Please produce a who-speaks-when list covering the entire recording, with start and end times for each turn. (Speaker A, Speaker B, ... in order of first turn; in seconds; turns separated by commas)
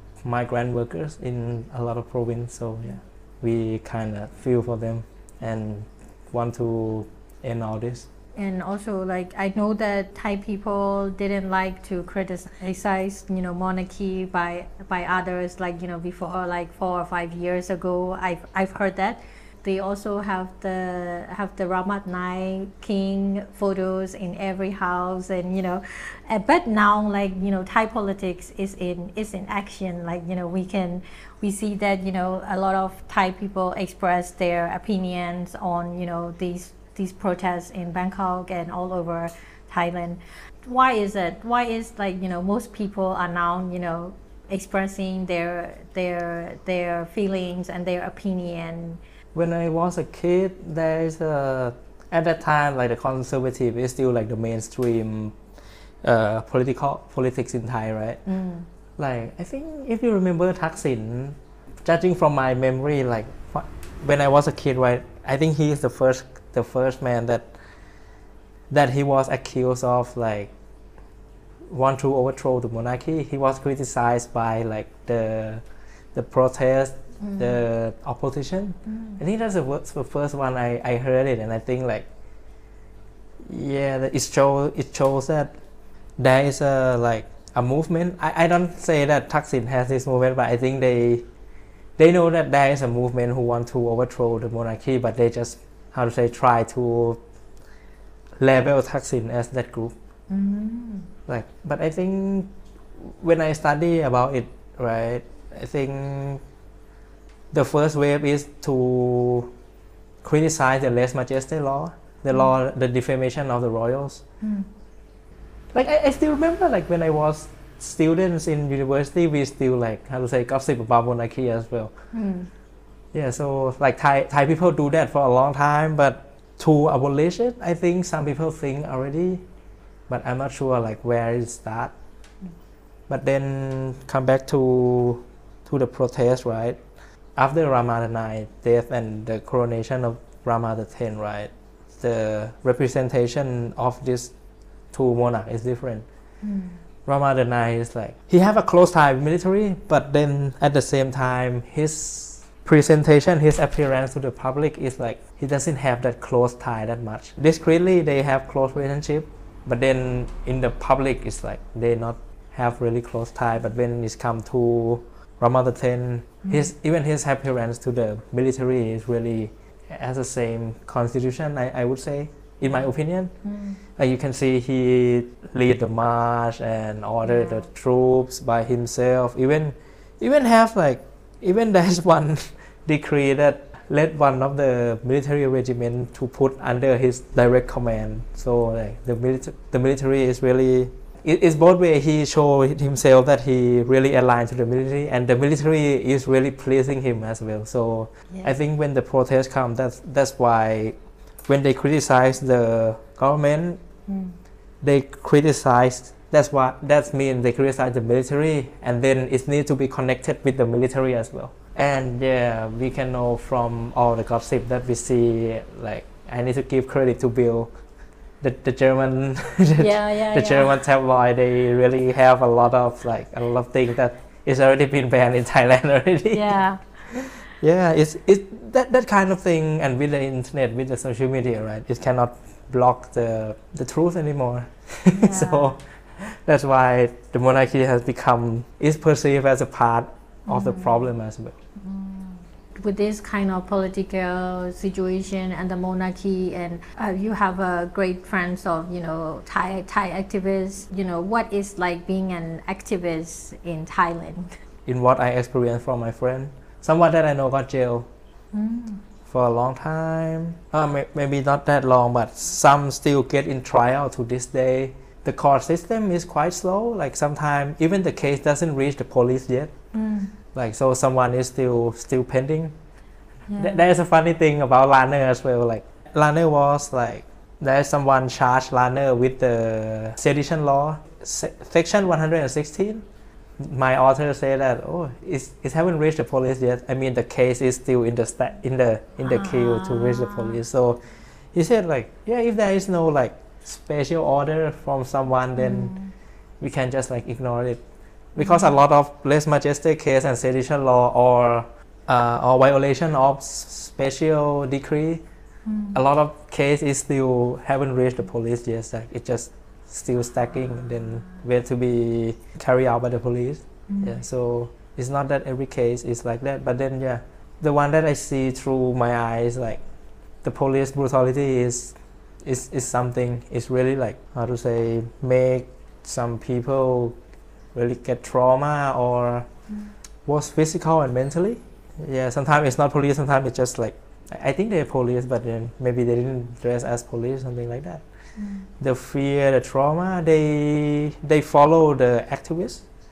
Speaker A: 0.2-8.1, Speaker B: 8.4-49.0, Speaker A: 49.3-55.4, Speaker A: 56.0-58.2, Speaker B: 58.3-58.7, Speaker A: 59.0-67.5, Speaker A: 68.7-70.5, Speaker A: 71.7-75.6, Speaker A: 76.2-82.1, Speaker B: 77.2-77.6, Speaker B: 78.9-79.2, Speaker A: 83.5-85.5, Speaker A: 86.2-91.3, Speaker A: 92.0-97.2, Speaker A: 98.4-100.0, Speaker B: 100.3-101.1, Speaker A: 101.3-106.4, Speaker A: 107.5-109.5, Speaker A: 110.2-114.2, Speaker B: 114.4-114.7, Speaker A: 115.7-121.9, Speaker B: 122.1-122.5, Speaker A: 123.1-129.4, Speaker A: 130.1-131.9, Speaker A: 133.1-136.8, Speaker A: 137.4-144.3, Speaker A: 144.9-146.1, Speaker B: 146.4-146.8, Speaker A: 147.1-173.3, Speaker B: 173.4-173.8, Speaker A: 174.0-201.0, Speaker B: 177.2-177.7, Speaker B: 198.3-198.6, Speaker A: 201.5-203.8, Speaker B: 204.1-204.4, Speaker A: 204.8-217.7, Speaker A: 218.4-226.6, Speaker B: 219.8-220.8, Speaker B: 226.3-227.2, Speaker A: 227.1-241.6, Speaker B: 235.1-235.8, Speaker B: 240.5-241.1, Speaker B: 241.8-254.5, Speaker A: 254.9-258.1, Speaker B: 258.5-259.0, Speaker A: 259.3-269.7, Speaker B: 269.9-270.3, Speaker A: 270.6-272.8, Speaker B: 273.5-273.9, Speaker A: 273.6-283.1, Speaker A: 283.6-291.0, Speaker B: 289.2-290.6, Speaker A: 291.5-295.9, Speaker B: 295.6-296.1, Speaker A: 296.6-297.8, Speaker A: 298.4-305.2, Speaker B: 298.4-298.8, Speaker B: 305.7-306.0, Speaker A: 305.9-319.8, Speaker B: 313.9-314.2, Speaker A: 320.4-327.2, Speaker A: 327.7-329.5, Speaker A: 330.3-338.0, Speaker B: 338.4-338.7, Speaker A: 338.8-342.8